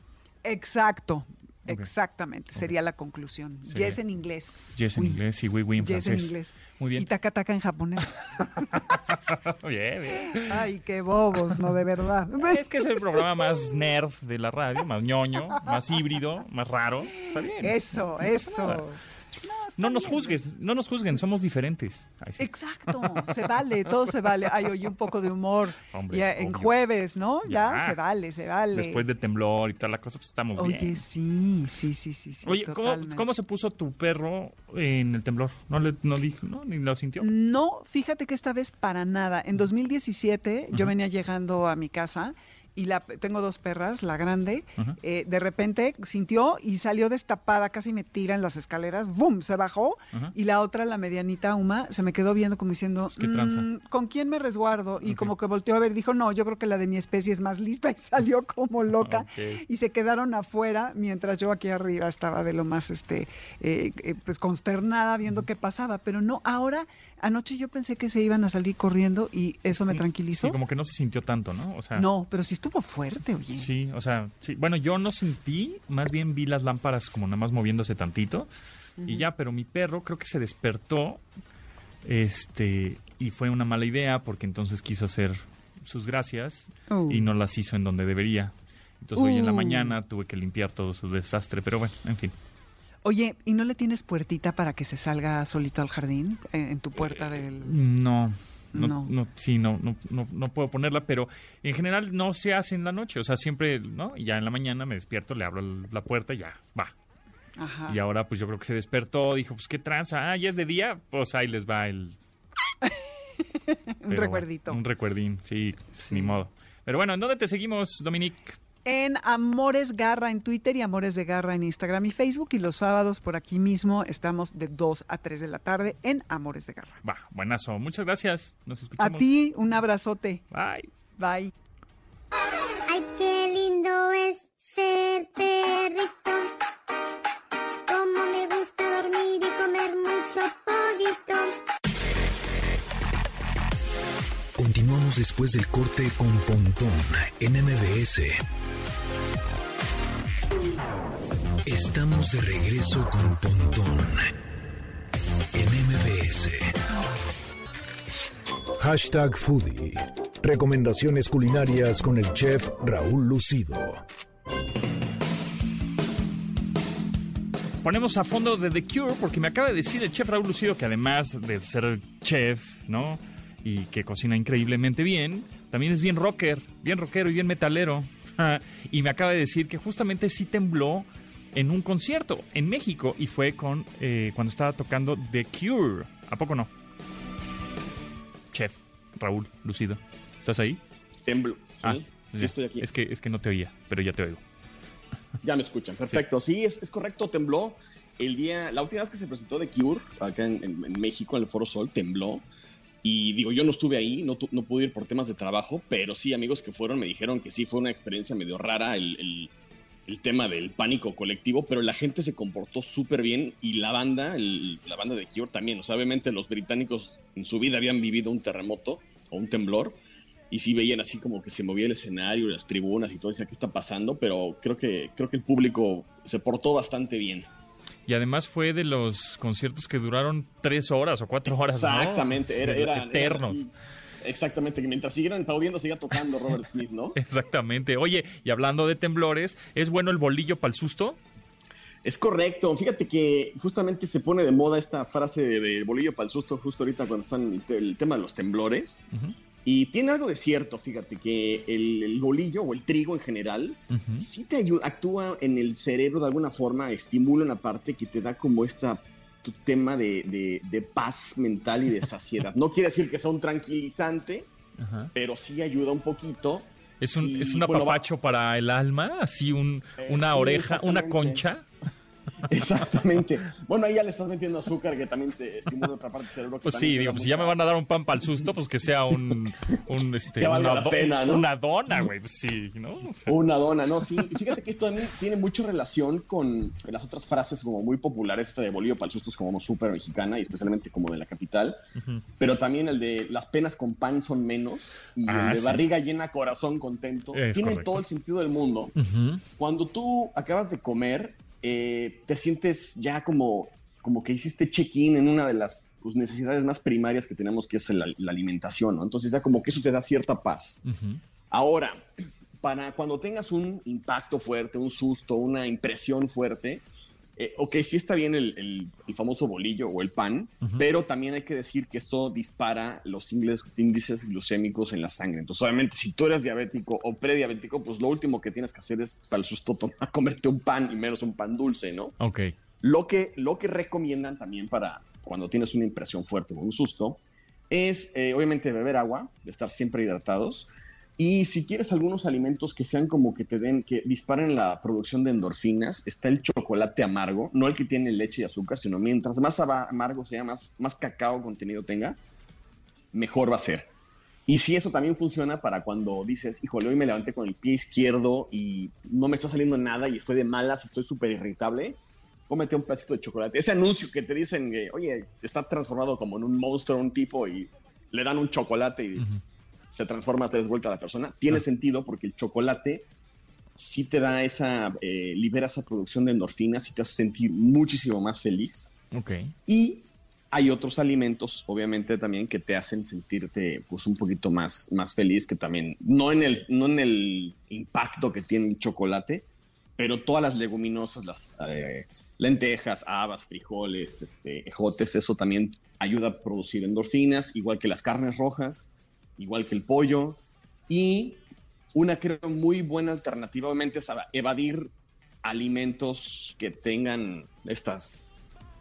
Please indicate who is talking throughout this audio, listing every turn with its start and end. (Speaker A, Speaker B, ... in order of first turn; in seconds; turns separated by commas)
Speaker A: 0.4-5.2, Speaker B: 3.7-4.0, Speaker B: 4.7-7.1, Speaker A: 5.8-9.0, Speaker B: 8.7-10.7, Speaker A: 10.2-13.8, Speaker B: 12.4-17.8, Speaker A: 15.5-15.8, Speaker A: 17.2-20.4, Speaker B: 18.3-18.8, Speaker B: 19.8-23.3, Speaker A: 22.4-29.0, Speaker B: 23.9-24.9, Speaker B: 25.9-26.8, Speaker B: 27.4-28.0, Speaker B: 28.7-31.0, Speaker A: 30.6-33.3, Speaker B: 32.4-37.3, Speaker A: 37.2-70.6, Speaker B: 53.1-53.7, Speaker B: 55.0-55.3, Speaker B: 58.9-59.6, Speaker B: 69.8-72.1, Speaker A: 71.9-73.7, Speaker B: 73.5-78.5, Speaker A: 79.0-79.3, Speaker B: 79.0-81.2, Speaker B: 82.0-92.3, Speaker A: 86.9-87.3, Speaker A: 89.2-90.0, Speaker A: 93.0-97.7, Speaker B: 97.6-106.9, Speaker A: 98.7-99.1, Speaker A: 107.6-108.0, Speaker B: 107.9-112.2, Speaker A: 114.0-114.8, Speaker B: 114.1-118.6, Speaker A: 115.9-116.4, Speaker A: 118.8-127.0, Speaker B: 127.0-129.3, Speaker A: 129.0-130.4, Speaker B: 130.5-130.9, Speaker A: 131.2-131.5, Speaker C: 132.9-136.5, Speaker C: 137.9-141.5, Speaker D: 144.6-148.4, Speaker D: 151.7-154.3, Speaker D: 155.5-156.7, Speaker D: 158.8-164.0, Speaker B: 167.8-186.7, Speaker B: 188.5-190.8, Speaker E: 191.2-192.9, Speaker B: 191.8-194.4, Speaker E: 195.4-202.4, Speaker E: 203.0-209.5, Speaker E: 210.1-227.5, Speaker B: 228.1-233.6, Speaker E: 231.4-233.7, Speaker E: 234.2-237.2, Speaker B: 237.2-241.2, Speaker E: 242.0-249.0, Speaker E: 249.6-264.5, Speaker B: 253.9-254.3, Speaker B: 264.8-265.1, Speaker E: 265.1-266.7, Speaker B: 267.0-271.6, Speaker E: 267.2-268.0, Speaker E: 270.0-271.4, Speaker E: 272.5-277.6, Speaker B: 276.6-283.4, Speaker E: 280.3-281.5, Speaker E: 283.3-291.8, Speaker B: 284.0-284.3, Speaker B: 292.0-292.2, Speaker E: 292.4-298.9, Speaker B: 295.2-295.8, Speaker B: 297.3-298.0, Speaker B: 298.9-299.4, Speaker E: 299.6-310.8, Speaker B: 310.8-311.2, Speaker E: 311.5-312.0, Speaker E: 312.6-316.8, Speaker E: 317.4-332.1, Speaker B: 332.2-332.5, Speaker E: 332.8-352.2, Speaker E: 353.1-353.9, Speaker E: 354.5-369.3, Speaker E: 369.9-373.0, Speaker E: 373.7-378.9, Speaker B: 379.1-379.5, Speaker E: 379.7-389.4, Speaker E: 390.0-401.4, Speaker E: 401.9-404.9, Speaker E: 405.4-408.3